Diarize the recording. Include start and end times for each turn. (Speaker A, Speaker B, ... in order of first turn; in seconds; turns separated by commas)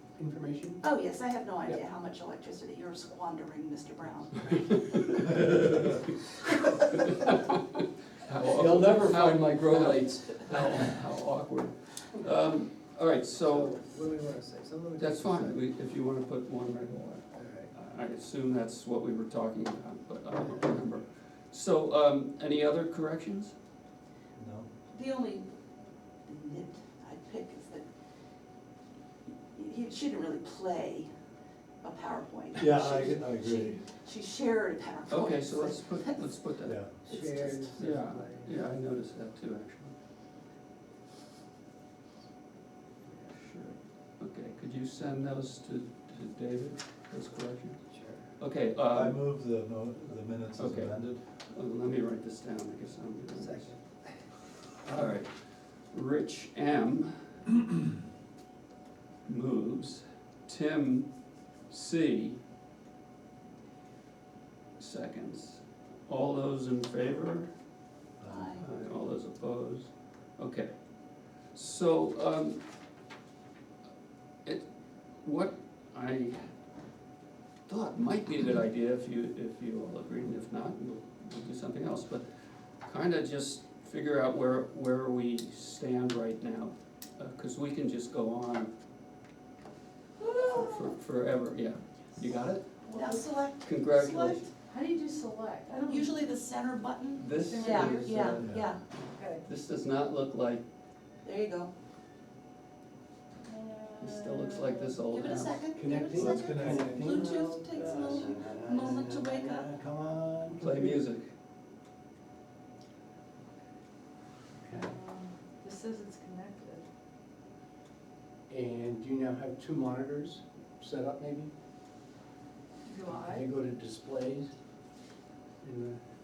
Speaker A: 0.1-0.8, Speaker B: 0.8-4.8, Speaker C: 4.9-5.2, Speaker C: 7.2-7.6, Speaker C: 8.2-13.8, Speaker A: 8.4-10.6, Speaker D: 13.4-15.6, Speaker C: 15.0-23.6, Speaker D: 17.3-17.7, Speaker E: 24.4-24.7, Speaker B: 24.9-25.5, Speaker B: 26.2-27.9, Speaker B: 29.5-31.1, Speaker B: 31.8-37.8, Speaker E: 32.5-33.9, Speaker C: 35.1-36.8, Speaker E: 36.7-37.0, Speaker D: 37.1-38.7, Speaker C: 37.8-40.0, Speaker C: 43.2-47.8, Speaker D: 47.9-48.4, Speaker C: 48.4-49.5, Speaker E: 48.8-51.3, Speaker C: 50.5-53.8, Speaker D: 53.3-55.2, Speaker C: 54.9-57.4, Speaker C: 59.3-61.1, Speaker C: 61.7-62.4, Speaker C: 64.8-67.5, Speaker E: 68.2-68.6, Speaker B: 68.3-68.7, Speaker C: 68.6-72.6, Speaker C: 74.4-76.5, Speaker C: 77.7-82.3, Speaker C: 82.8-88.7, Speaker B: 90.2-90.9, Speaker C: 90.5-92.7, Speaker F: 92.8-93.3, Speaker B: 92.9-94.5, Speaker C: 93.5-94.5, Speaker F: 94.6-96.3, Speaker B: 95.8-98.8, Speaker C: 97.2-100.7, Speaker F: 97.3-98.4, Speaker E: 98.4-98.8, Speaker F: 99.1-99.5, Speaker B: 101.2-101.7, Speaker F: 103.5-105.0, Speaker C: 104.0-105.6, Speaker B: 105.1-109.7, Speaker A: 105.7-111.0, Speaker E: 106.1-107.2, Speaker F: 107.1-108.5, Speaker C: 110.5-111.3, Speaker A: 114.6-114.9, Speaker F: 114.7-116.9, Speaker A: 118.5-121.5, Speaker F: 122.9-123.5, Speaker A: 123.0-124.5, Speaker A: 125.6-126.0